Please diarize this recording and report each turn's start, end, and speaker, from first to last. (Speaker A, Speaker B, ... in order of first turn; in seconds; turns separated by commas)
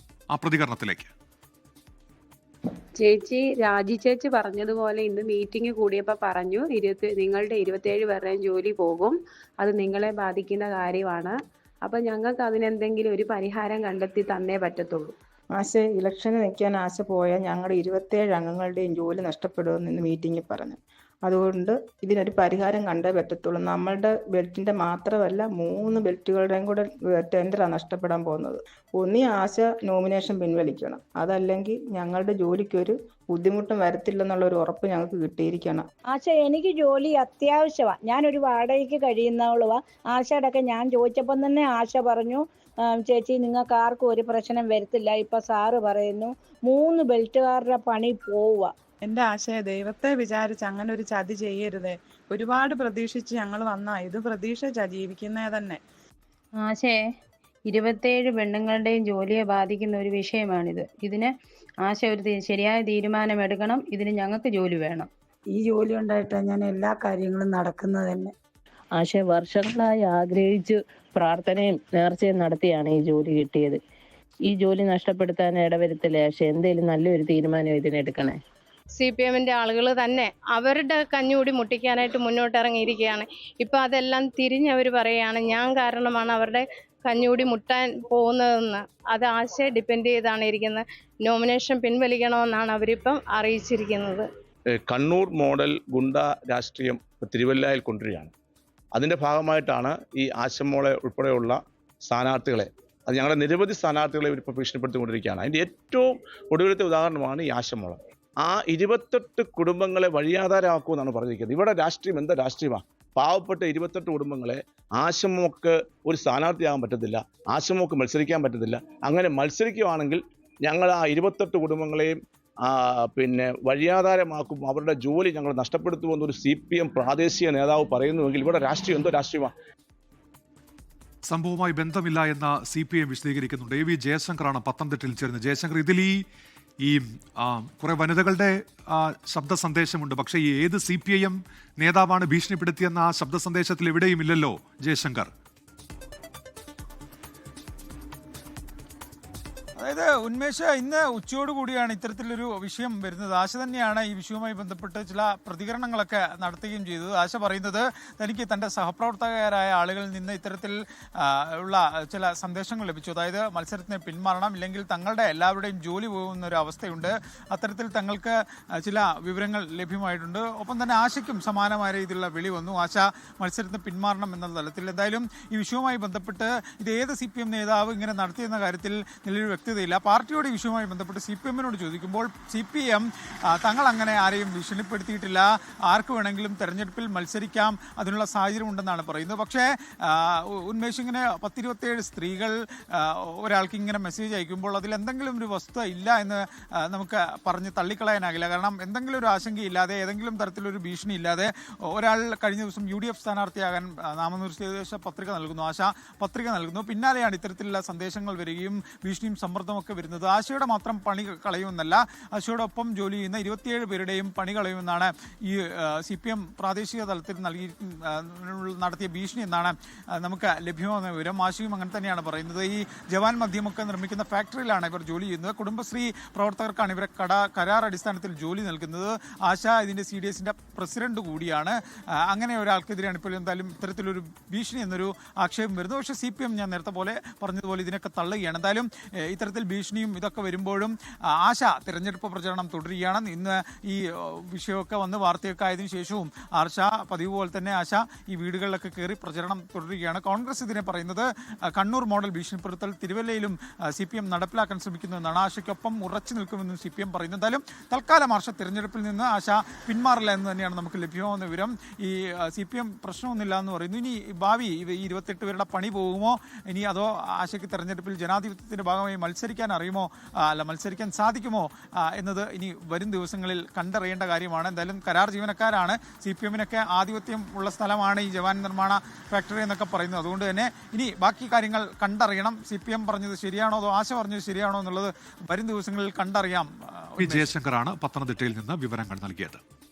Speaker A: 0.3-1.1, Speaker B: 3.0-15.2, Speaker C: 15.5-35.9, Speaker D: 36.1-48.7, Speaker E: 49.0-55.8, Speaker F: 56.6-57.0, Speaker F: 57.7-65.1, Speaker G: 65.5-68.3, Speaker H: 68.9-73.8, Speaker H: 74.5-78.4, Speaker I: 79.0-94.3, Speaker J: 94.9-98.3, Speaker J: 99.0-122.1, Speaker J: 122.7-129.5, Speaker A: 131.3-136.2, Speaker A: 136.8-145.3, Speaker K: 149.8-231.8, Speaker K: 232.3-287.5, Speaker A: 287.2-289.6